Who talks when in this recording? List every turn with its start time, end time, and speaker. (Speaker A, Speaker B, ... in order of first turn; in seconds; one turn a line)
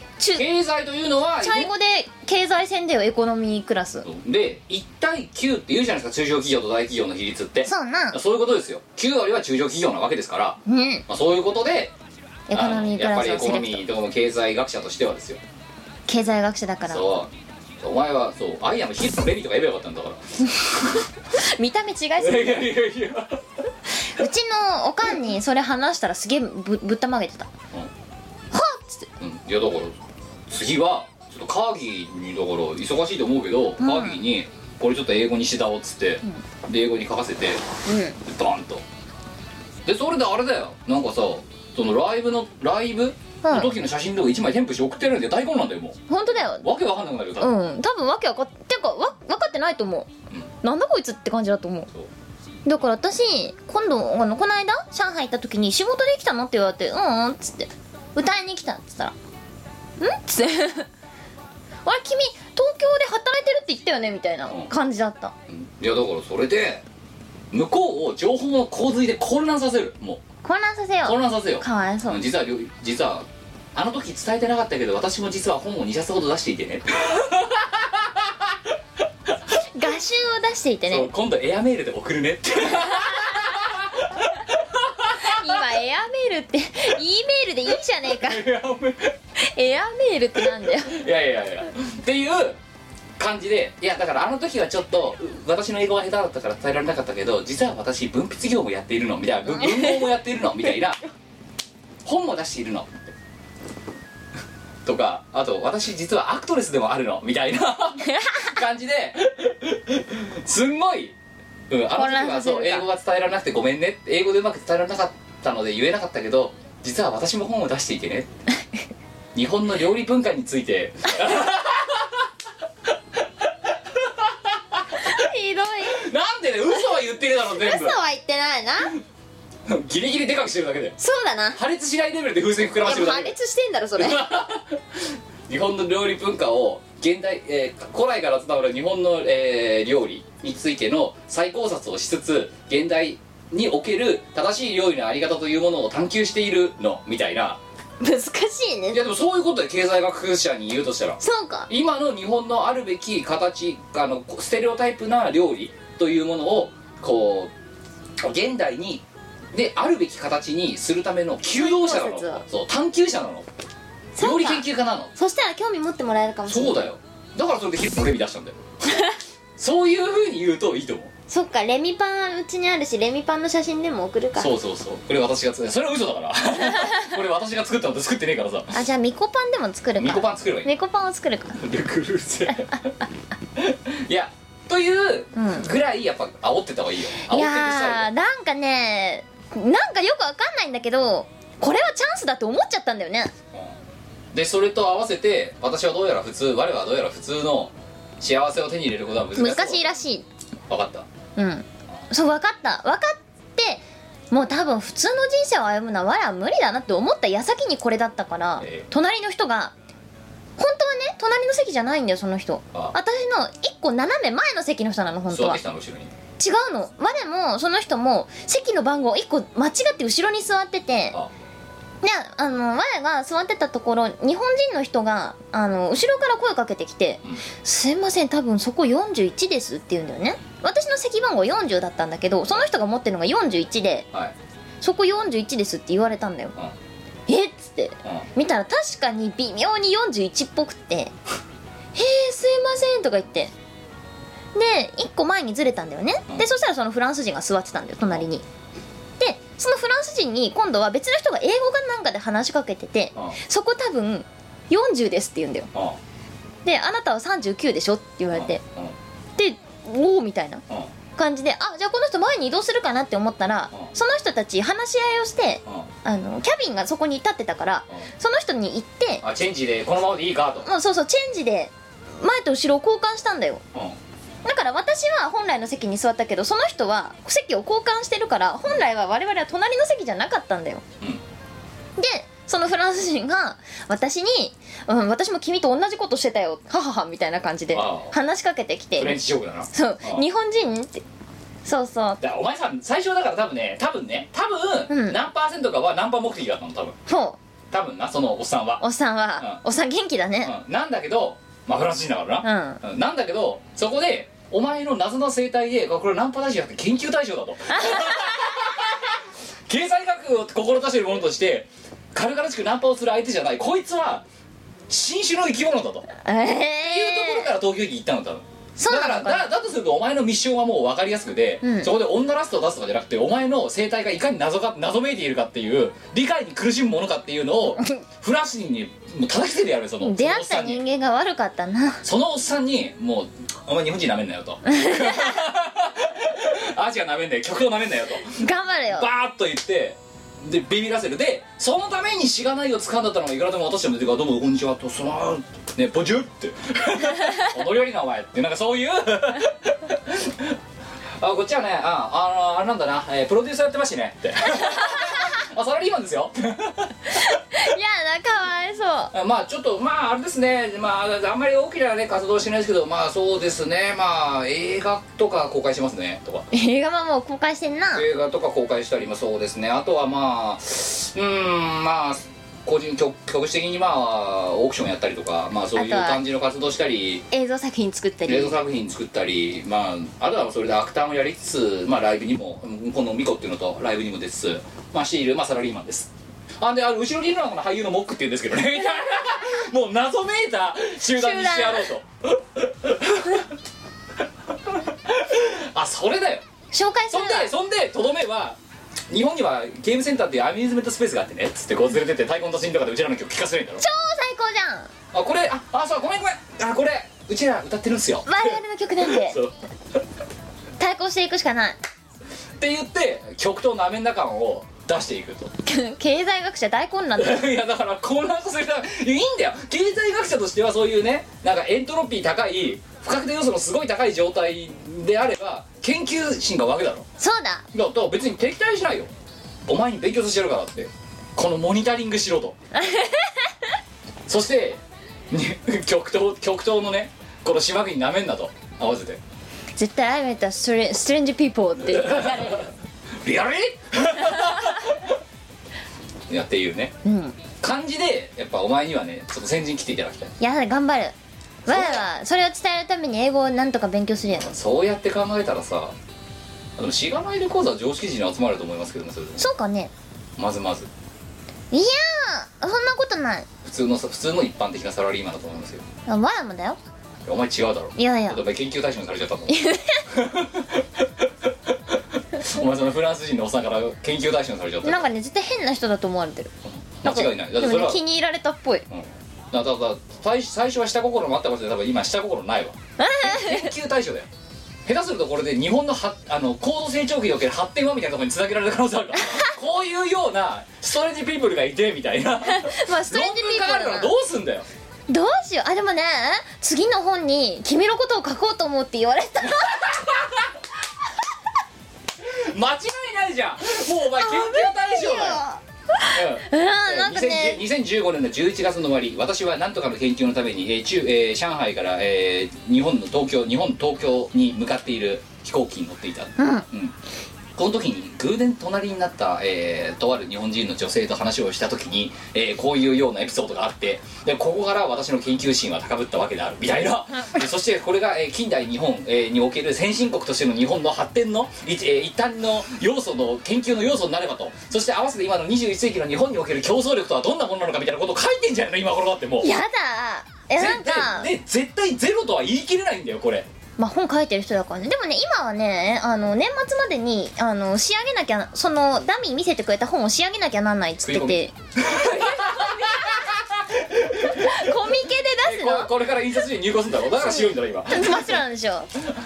Speaker A: 0.2-0.5
Speaker B: 0.3-1.7
Speaker A: 1.4-4.1
Speaker B: 4.0-11.9
Speaker A: 7.7-8.2
Speaker A: 10.7-11.0
Speaker A: 12.5-13.8
Speaker B: 12.5-15.4
Speaker A: 16.1-17.2
Speaker B: 16.9-17.3
Speaker B: 17.8-21.0
Speaker A: 21.3-22.7
Speaker B: 22.2-23.4
Speaker A: 24.1-27.5
Speaker A: 28.5-29.1
Speaker B: 29.2-29.9
Speaker B: 30.5-37.6
Speaker A: 33.8-34.2
Speaker A: 37.9-38.2
Speaker B: 38.2-38.8
Speaker B: 39.9-47.5
Speaker A: 43.4-43.7
Speaker A: 46.1-46.7
Speaker A: 47.4-50.1
Speaker A: 50.6-51.9
Speaker A: 52.7-59.1
Speaker A: 60.0-60.9
Speaker A: 61.9-65.3
Speaker B: 65.5-66.8
Speaker B: 67.5-70.2
Speaker A: 70.4-72.2
Speaker B: 71.0-78.5
Speaker A: 79.7-81.1
Speaker B: 80.9-85.6
Speaker A: 85.2-88.4
Speaker B: 88.1-89.2
Speaker A: 89.4-91.0
Speaker B: 90.9-92.6
Speaker B: 93.2-101.0
Speaker A: 99.5-100.1
Speaker B: 102.0-103.1
Speaker B: 104.8-111.2
Speaker A: 108.1-108.5
Speaker B: 111.7-118.3
Speaker A: 112.0-112.9
Speaker B: 119.3-122.3
Speaker B: 123.4-125.1
Speaker A: 125.0-126.0
Speaker B: 125.9-128.0
Speaker A: 126.8-128.9
Speaker B: 129.7-131.0
Speaker A: 131.0-131.6
Speaker B: 131.6-133.3
Speaker A: 132.8-134.3
Speaker B: 134.0-147.6
Speaker A: 148.0-149.0
Speaker B: 148.9-157.5
Speaker A: 151.2-151.7
Speaker B: 158.2-163.5
Speaker A: 161.5-162.4
Speaker A: 164.2-166.9
Speaker B: 164.2-165.1
Speaker B: 166.5-168.6
Speaker B: 169.6-171.1
Speaker A: 171.3-174.5
Speaker B: 174.4-178.7
Speaker A: 176.7-177.1
Speaker A: 178.7-181.6
Speaker B: 180.0-180.7
Speaker B: 181.6-182.8
Speaker A: 182.5-182.9
Speaker B: 183.6-188.1
Speaker A: 185.4-185.7
Speaker A: 187.3-193.3
Speaker B: 194.3-199.9
Speaker A: 199.4-200.3
Speaker B: 200.7-201.1
Speaker A: 201.4-209.7
Speaker B: 208.6-208.9
Speaker A: 210.6-215.6
Speaker B: 215.3-216.1
Speaker A: 216.4-221.2
Speaker A: 222.0-234.1
Speaker A: 234.8-236.6
Speaker A: 237.3-241.1
Speaker A: 241.9-243.5
Speaker A: 244.6-248.4
Speaker A: 249.2-255.7
Speaker B: 255.7-256.0
Speaker A: 256.6-258.6
Speaker B: 258.3-258.9
Speaker A: 259.4-260.6
Speaker A: 261.2-269.2
Speaker B: 269.2-270.7
Speaker A: 270.6-273.6
Speaker A: 274.4-280.8
Speaker A: 282.0-289.2
Speaker B: 287.7-288.1
Speaker B: 289.0-290.2
Speaker A: 289.7-291.0
Speaker A: 291.6-292.2
Speaker B: 292.2-297.0
Speaker A: 294.9-295.2
Speaker A: 297.1-297.4
Speaker B: 297.7-298.8
Speaker A: 298.8-300.5
Speaker B: 300.4-314.2
Speaker A: 302.4-302.8
Speaker A: 307.7-308.7
Speaker B: 314.9-316.1
Speaker A: 316.2-317.5
Speaker B: 316.8-330.8
Speaker A: 318.8-319.5
Speaker A: 321.6-321.9
Speaker A: 330.0-332.0
Speaker B: 332.0-350.6
Speaker A: 334.7-335.4
Speaker A: 338.4-339.1
Speaker B: 351.2-357.1
Speaker A: 354.5-355.3
Speaker A: 357.1-359.1
Speaker B: 359.1-366.5
Speaker A: 366.5-368.1
Speaker B: 367.9-377.2
Speaker A: 375.7-376.2
Speaker A: 377.3-378.6
Speaker B: 378.3-393.5
Speaker A: 391.1-391.9
Speaker B: 394.7-396.4
Speaker A: 396.7-397.5
Speaker B: 397.1-398.6
Speaker B: 399.1-403.9
Speaker A: 403.8-404.9
Speaker B: 405.1-409.5
Speaker A: 408.3-409.4
Speaker A: 410.8-411.8
Speaker B: 412.6-415.5
Speaker A: 415.7-417.4
Speaker B: 417.2-427.1
Speaker A: 427.2-427.6
Speaker B: 427.7-429.1
Speaker B: 429.7-432.6
Speaker A: 432.8-433.5
Speaker B: 434.3-439.2
Speaker A: 439.8-442.7
Speaker B: 441.9-442.7
Speaker B: 443.2-445.0
Speaker B: 446.3-446.9
Speaker A: 447.0-447.4
Speaker B: 447.6-450.4
Speaker A: 450.4-454.6
Speaker B: 451.7-452.1
Speaker B: 454.4-455.9
Speaker B: 456.8-459.5
Speaker A: 459.4-459.9
Speaker B: 460.4-460.9
Speaker A: 461.7-463.5
Speaker B: 463.6-465.9
Speaker A: 466.1-466.8
Speaker B: 467.3-475.0
Speaker A: 468.0-468.4
Speaker A: 469.5-470.0
Speaker A: 474.8-476.5
Speaker B: 476.7-478.0
Speaker A: 477.1-478.9
Speaker B: 478.9-484.3
Speaker A: 483.0-483.7
Speaker B: 484.9-494.7
Speaker A: 489.2-489.5
Speaker A: 492.5-494.1
Speaker A: 495.1-499.9
Speaker B: 499.5-500.5
Speaker B: 502.2-505.4
Speaker A: 504.2-507.6
Speaker B: 506.1-517.0
Speaker A: 516.4-516.6
Speaker B: 517.6-539.5
Speaker A: 539.4-541.3
Speaker B: 540.6-543.5
Speaker A: 543.8-551.5
Speaker B: 551.0-558.4
Speaker A: 552.6-553.2
Speaker A: 554.2-555.9
Speaker A: 557.2-558.9